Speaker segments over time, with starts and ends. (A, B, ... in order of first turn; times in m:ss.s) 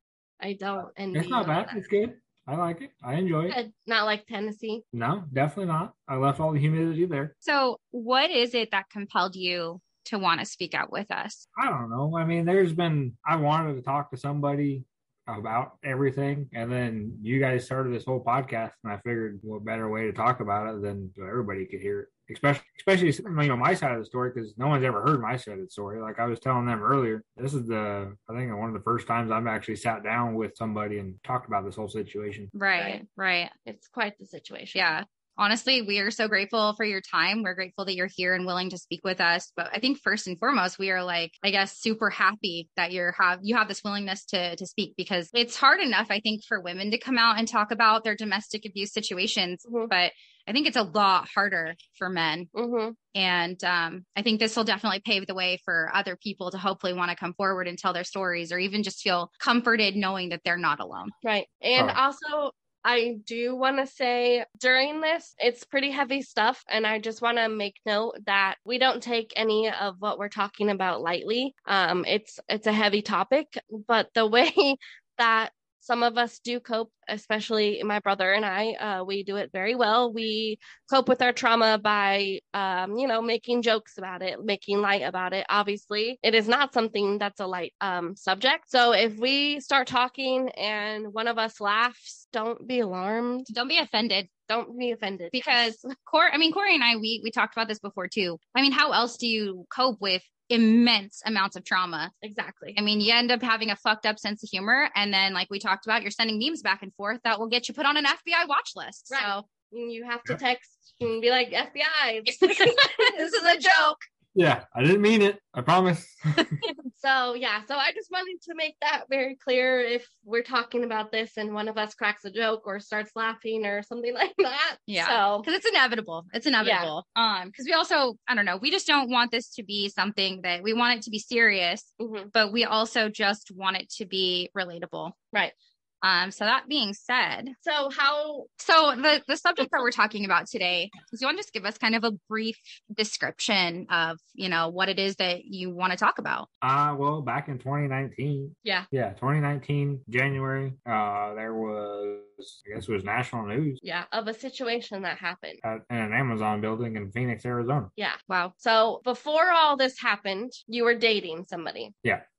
0:00.4-0:01.8 A
0:01.1-0:03.6 B
0:03.5-0:04.8 A
0:04.9-0:07.3 B
0:07.4-0:11.4 C
0:11.6-0:32.5 B
0:32.5-0:33.5 C
0:32.7-0:33.0 A
0:33.6-0:34.8 A
0:34.7-0:52.5 C
0:49.6-0:49.9 A
0:52.5-0:53.0 A
0:53.1-1:01.1 C
1:01.2-1:33.5 A
1:33.5-1:34.3 C
1:34.5-1:35.8 A
1:35.3-1:42.1 C
1:42.2-1:42.8 A
1:42.8-1:49.4 C
1:49.1-1:53.2 A
1:52.3-1:54.0 C
1:54.3-1:56.6 B
1:56.9-2:05.5 A
2:04.9-2:15.2 C
2:06.6-2:06.9 A
2:12.0-2:12.3 A
2:16.0-2:17.6 C
2:17.6-2:18.5 A
2:18.6-2:26.5 C
2:26.6-2:33.8 B
2:33.8-2:35.6 A
2:35.6-2:37.9 B
2:38.0-2:41.9 A